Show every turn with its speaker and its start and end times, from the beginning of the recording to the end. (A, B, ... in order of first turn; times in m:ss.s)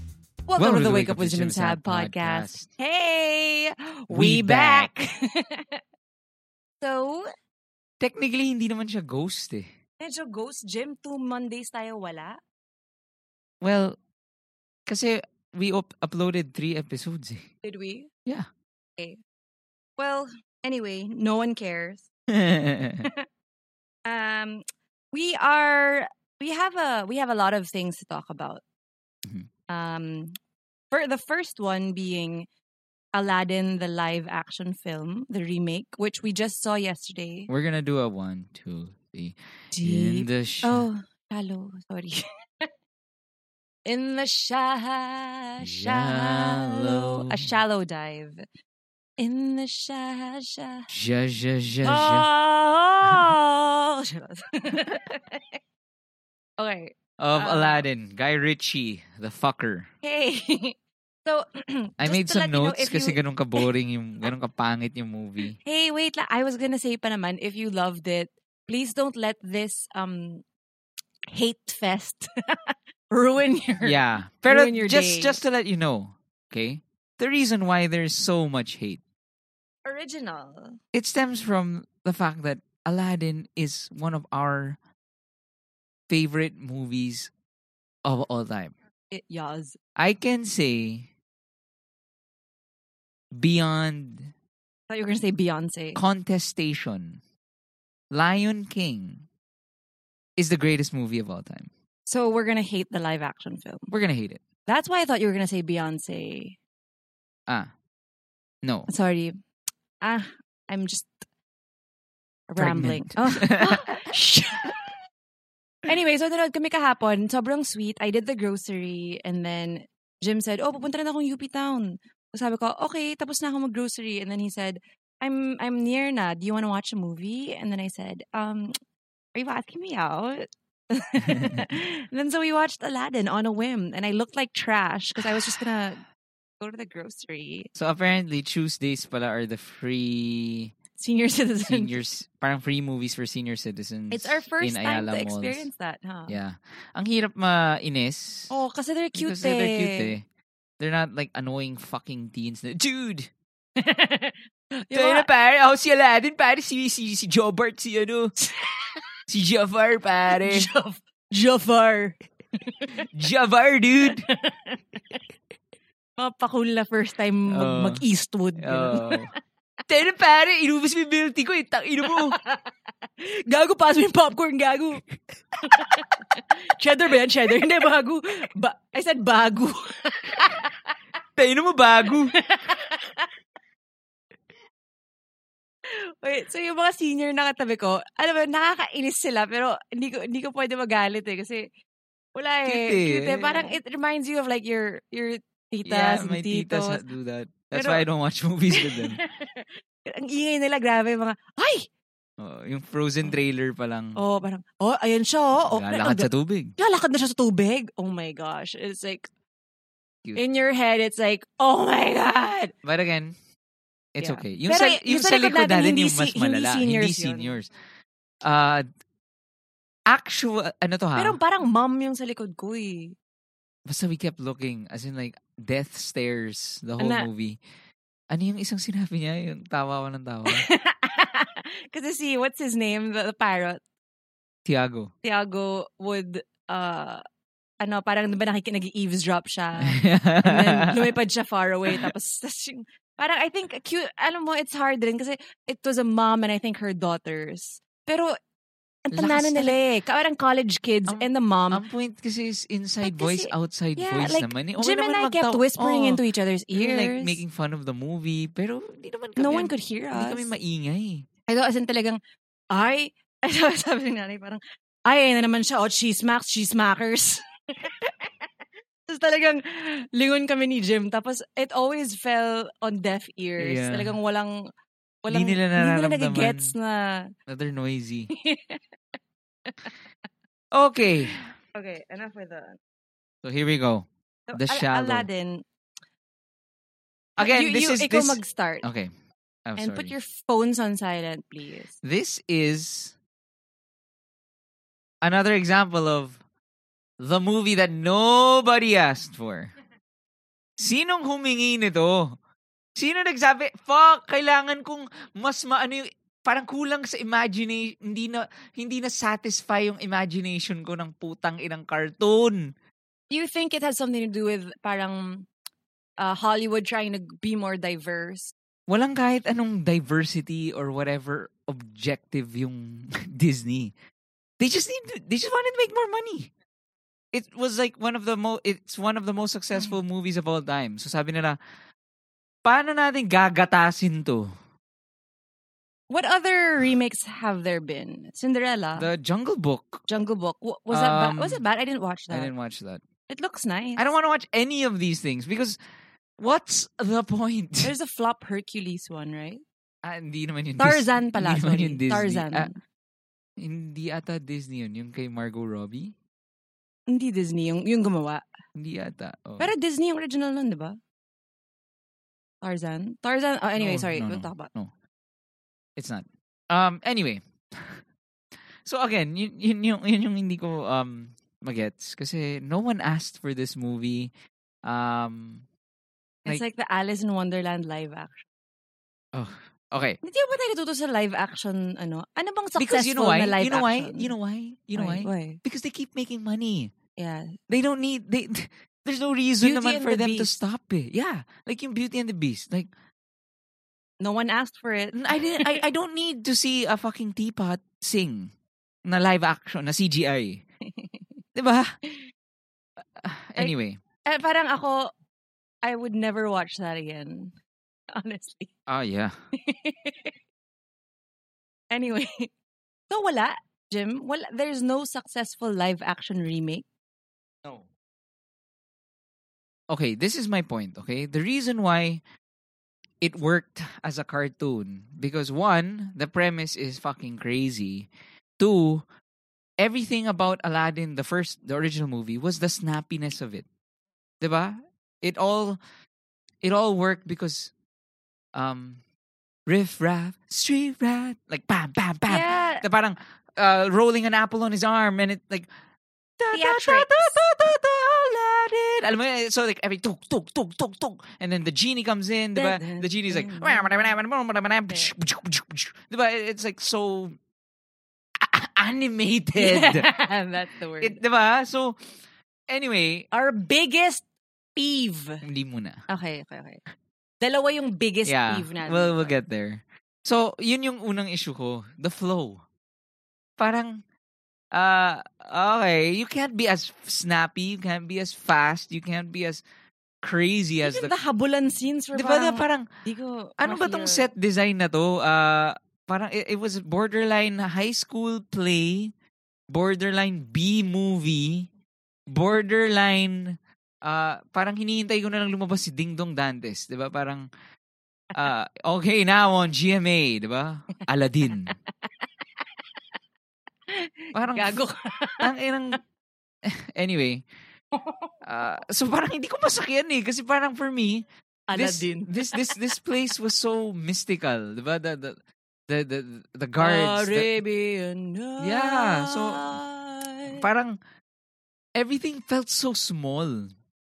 0:00.5-0:05.8 A
0:00.6-0:02.7 B
0:04.1-0:04.9 B
0:06.8-0:07.3 A
0:08.0-0:09.7 B
0:10.0-0:12.4 A
0:13.6-0:14.0 B
0:14.9-0:17.5 B
0:17.6-0:18.1 A
0:20.0-0:22.1 A
0:22.3-0:23.1 B
0:24.0-0:28.6 A
0:29.7-0:30.3 A
0:30.9-0:32.5 A
0:33.1-0:37.5 A
0:37.5-0:40.8 B
0:39.7-0:42.2 A
0:43.8-0:48.4 A
0:45.6-0:47.5 B
0:49.2-0:50.9 A
0:50.9-0:52.3 B
0:51.8-0:55.6 A
0:56.6-0:57.8 A
0:57.2-0:59.9 B
1:00.0-1:03.7 A
1:02.0-1:05.6 B
1:05.6-1:10.4 A
1:11.3-1:15.4 A
1:13.8-1:19.0 B
1:19.8-1:20.8 A
1:20.9-1:24.8 B
1:26.1-1:27.3 B
1:28.0-1:28.7 B
1:29.1-1:29.8 A
1:30.0-1:31.1 B
1:33.3-1:34.3 B
1:34.9-1:36.0 A
1:35.9-1:37.2 B
1:38.1-1:39.2 B
1:40.4-1:41.7 B
1:42.0-1:43.9 A
1:43.9-1:44.4 B
1:44.7-1:46.6 A
1:48.6-1:48.9 B
1:48.9-1:49.3 A
1:50.0-1:51.1 A
1:52.5-1:54.9 A
1:52.6-1:53.8 B
1:55.8-2:08.7 A
2:09.3-2:16.0 A
2:11.3-2:11.7 B
2:15.2-2:15.7 B
2:16.6-2:17.7 A
2:17.8-2:20.7 B
2:21.0-2:22.0 A
2:21.6-2:25.7 B
2:24.1-2:26.4 A
2:26.3-2:28.5 B
2:28.5-2:30.1 A
2:29.2-2:30.2 B
2:30.8-2:33.3 B
2:33.8-2:35.3 A
2:34.9-2:38.3 B
2:39.3-2:40.7 B
2:40.3-2:43.0 A
2:43.0-2:44.3 B
2:44.3-2:45.2 A
2:46.2-2:49.2 A
2:47.5-2:48.0 B
2:48.6-2:49.3 B
2:49.9-2:52.4 B
2:52.1-2:55.0 A
2:55.6-3:00.8 A
3:01.4-3:02.3 B
3:02.3-3:03.3 A
3:05.9-3:11.7 A
3:12.3-3:17.0 A
3:12.6-3:13.8 B
3:15.8-3:19.2 B
3:17.7-3:18.0 A
3:18.7-3:21.9 A
3:22.4-3:24.2 B
3:24.2-3:29.3 A
3:25.7-3:26.7 B
3:30.4-3:32.7 A
3:32.8-3:33.3 B
3:34.1-3:37.7 B
3:34.2-3:37.6 A
3:38.4-3:38.8 B
3:40.1-3:41.4 B
3:41.2-3:43.2 A
3:43.8-3:47.6 B
3:47.0-3:47.3 A
3:48.3-3:50.6 B
3:50.5-3:53.8 A
3:54.6-3:55.1 B
3:55.2-3:57.2 A
3:57.8-4:08.3 A
3:59.8-4:01.2 B
4:09.0-4:11.8 A
4:09.1-4:09.8 B
4:11.1-4:16.2 B
4:13.0-4:17.4 A
4:16.7-4:21.3 B
4:19.4-4:20.5 A
4:21.5-4:22.2 A
4:22.7-4:28.3 A
4:29.1-4:34.6 A
4:33.6-4:34.1 B
4:35.2-4:37.3 A
4:35.3-4:36.7 B
4:37.5-4:38.3 B
4:38.3-4:38.8 A
4:39.7-4:39.9 A
4:40.7-4:41.4 B
4:41.7-4:42.8 A
4:43.4-4:45.3 B
4:44.5-4:45.6 A
4:47.4-4:49.1 B
4:47.4-4:48.9 A
4:49.7-4:50.1 B
4:49.8-4:51.9 A
4:52.0-4:53.1 B
4:55.2-4:56.4 B
4:57.2-4:59.7 B
5:00.8-5:02.4 B
5:03.0-5:12.7 B
5:13.3-5:15.5 A
5:16.2-5:18.5 A
5:18.9-5:23.9 B
5:24.6-5:26.5 B
5:27.3-5:31.6 B
5:32.6-5:34.5 B
5:36.1-5:39.1 A
5:39.0-5:40.0 B
5:40.1-5:42.5 A
5:40.9-5:41.6 B
5:42.3-5:43.0 B
5:43.3-5:44.0 A
5:44.0-5:45.8 B
5:46.4-5:47.9 B
5:47.8-5:49.6 A
5:50.0-5:52.7 B
5:50.8-5:52.8 A
5:53.6-5:56.1 B
5:57.1-5:58.4 A
5:58.7-5:59.7 B
5:59.6-6:01.0 A
6:02.6-6:04.7 A
6:03.8-6:04.9 B
6:06.0-6:08.0 B
6:08.8-6:14.3 B
6:14.8-6:15.6 B
6:16.4-6:18.4 A
6:19.3-6:20.2 B
6:20.2-6:24.3 A
6:22.8-6:26.9 B
6:24.9-6:25.6 A
6:27.2-6:27.6 A
6:27.7-6:32.9 B
6:29.6-6:30.6 A
6:34.2-6:35.8 A
6:35.1-6:38.5 B
6:39.0-6:40.6 B
6:40.9-6:41.2 A
6:41.5-6:42.0 B
6:43.2-6:44.0 B
6:43.6-6:45.1 A
6:45.8-6:47.5 A
6:48.1-6:48.7 A
6:48.9-6:49.3 B
6:49.6-6:50.3 A
6:51.9-6:52.5 A
6:53.1-6:56.8 A
6:59.9-7:02.2 B
7:03.2-7:09.0 B
7:09.8-7:13.6 B
7:14.4-7:15.8 B
7:16.6-7:17.7 B
7:18.5-7:19.0 B
7:19.7-7:25.7 B
7:22.3-7:22.8 A
7:26.4-7:37.4 B
7:26.5-7:27.4 A
7:32.5-7:34.1 A
7:38.4-7:40.1 B
7:39.6-7:41.2 A
7:41.0-7:42.1 B
7:42.7-7:43.3 B
7:43.3-7:45.4 A
7:45.4-7:46.0 B
7:46.1-7:46.8 A
7:47.4-7:49.4 A
7:48.2-7:52.6 B
7:53.6-7:54.0 B
7:54.7-7:59.6 B
8:00.2-8:01.1 B
8:00.8-8:04.3 A
8:02.1-8:02.9 B
8:03.6-8:09.1 B
8:09.7-8:11.7 B
8:12.3-8:17.5 B
8:18.3-8:21.8 B
8:23.9-8:25.5 A
8:24.3-8:24.8 B
8:25.4-8:26.0 B
8:26.6-8:27.5 B
8:27.9-8:28.3 A
8:28.4-8:37.6 B
8:31.7-8:32.8 A
8:36.8-8:40.6 A
8:38.6-8:39.8 B
8:40.5-8:41.0 B
8:42.0-8:43.7 B